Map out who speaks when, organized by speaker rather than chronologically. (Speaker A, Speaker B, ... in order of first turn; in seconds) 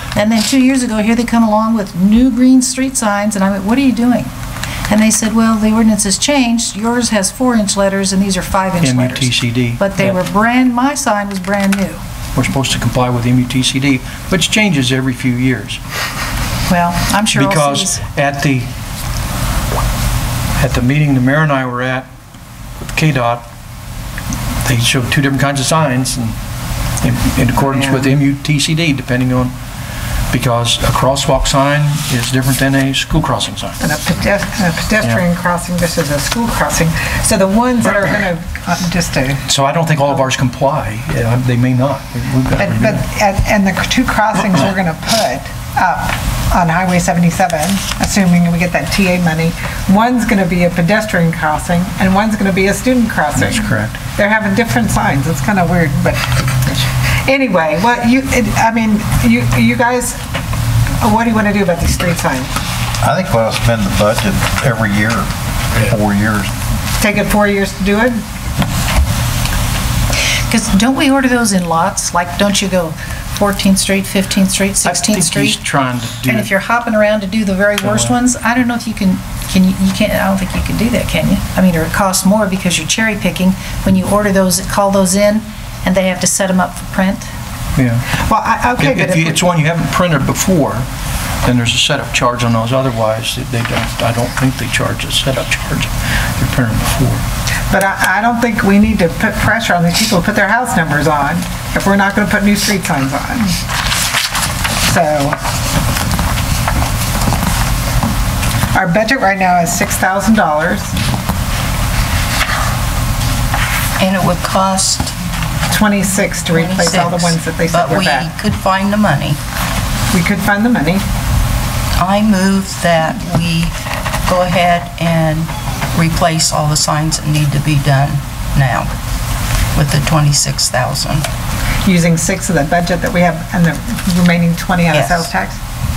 Speaker A: 0.1-4.3, 4.9-12.0, 16.7-18.0, 70.5-75.6, 76.3-87.3
Speaker B: 8.8-10.2, 12.3-15.8, 17.3-18.7, 20.6-22.1, 22.9-23.4, 24.6-26.4, 27.0-29.5, 30.3-33.8, 39.5-43.0, 53.4-54.0, 74.8-76.5, 77.8-78.2, 87.8-88.1, 88.8-90.9, 91.4-97.2
Speaker C: 33.8-39.4, 42.6-60.2, 61.0-62.5, 67.0-68.2, 88.2-89.4, 97.7-103.5, 104.8-105.4, 108.7-110.9, 115.7-118.3, 120.1-121.0, 131.8-135.6
Speaker D: 63.0-66.5
Speaker E: 114.0-115.1, 116.5-119.4, 122.0-123.8, 124.3-128.9, 129.7-131.3, 134.9-135.3